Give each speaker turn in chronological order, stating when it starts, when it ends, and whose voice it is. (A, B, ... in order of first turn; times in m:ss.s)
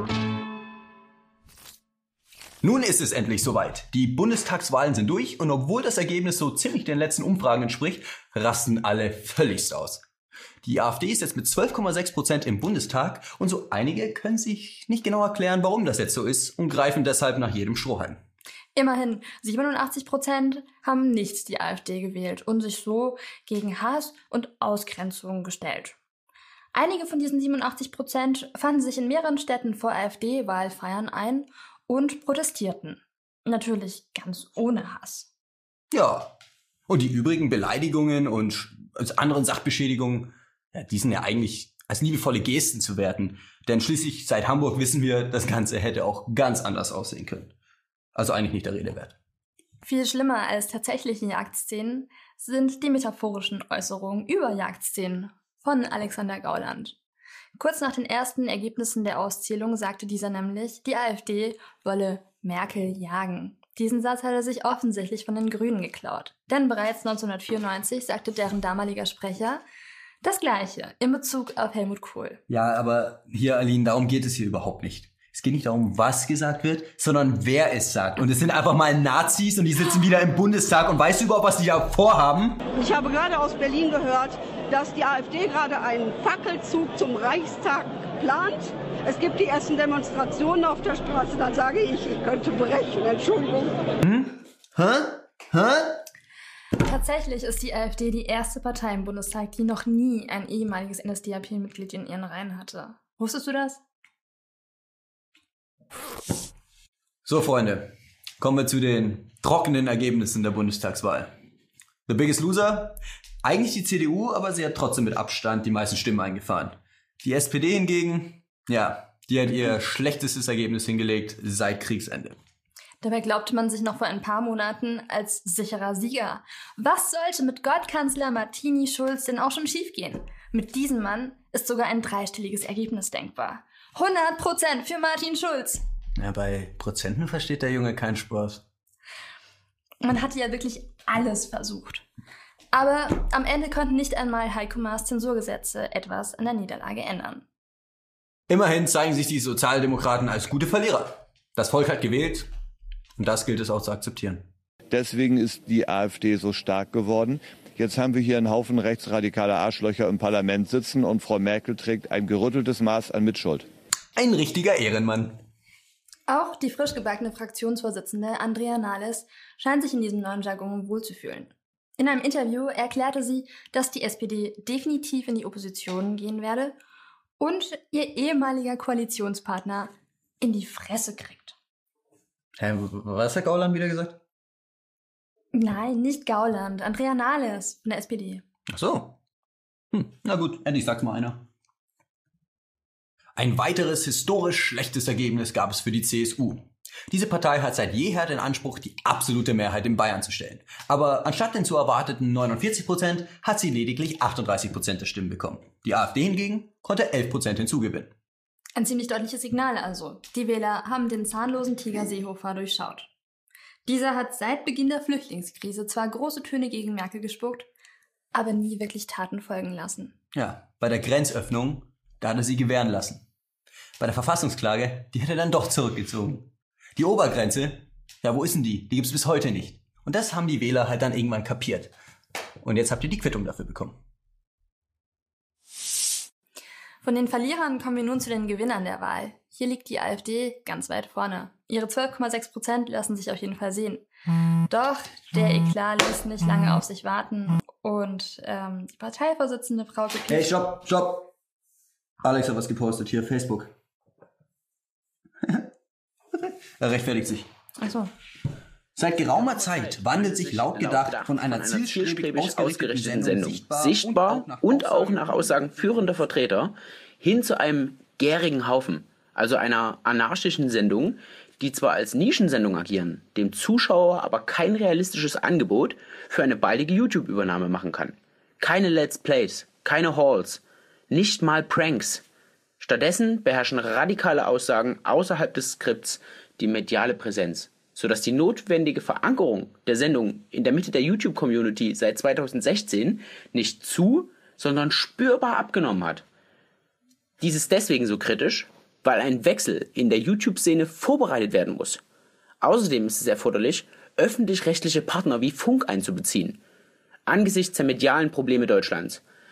0:02.6-0:10.0 A
0:10.6-0:18.2 A
0:18.8-0:26.0 B
0:26.7-0:35.3 B
0:35.9-0:36.3 A
0:36.9-0:47.5 A
0:48.1-0:49.2 A
0:49.8-0:57.0 B
0:57.6-1:09.6 B
1:10.2-1:12.4 B
1:12.5-1:22.6 A
1:22.7-1:33.8 C
1:34.0-1:36.0 A
1:36.8-1:43.8 B
1:47.2-1:47.9 A
1:48.4-1:51.3 A
1:52.1-2:02.4 A
2:03.0-2:15.8 B
2:16.2-2:18.6 A
2:20.0-2:22.0 B
2:22.7-2:27.4 B
2:28.5-2:32.5 A
2:33.2-2:34.4 A
2:34.9-2:43.7 D
2:44.2-2:45.4 A
2:46.3-2:56.8 B
2:57.4-3:01.5 B
3:02.6-3:04.2 A
3:05.5-3:08.4 B
3:08.7-3:09.2 A
3:09.9-3:11.4 A
3:13.4-3:28.1 A
3:28.8-3:33.1 B
3:33.8-3:37.7 B
3:38.3-3:40.1 B
3:40.3-3:43.2 A
3:44.0-3:51.9 A
3:52.6-3:53.9 A
3:57.0-4:04.0 B
4:04.7-4:10.5 B
4:10.3-4:11.3 A
4:12.2-4:13.7 A
4:16.3-4:17.5 A
4:17.8-4:18.1 B
4:19.0-4:26.1 A
4:19.2-4:42.2 E
4:42.8-4:56.2 E
4:57.4-5:02.0 E
5:02.6-5:06.6 E
5:07.3-5:09.2 E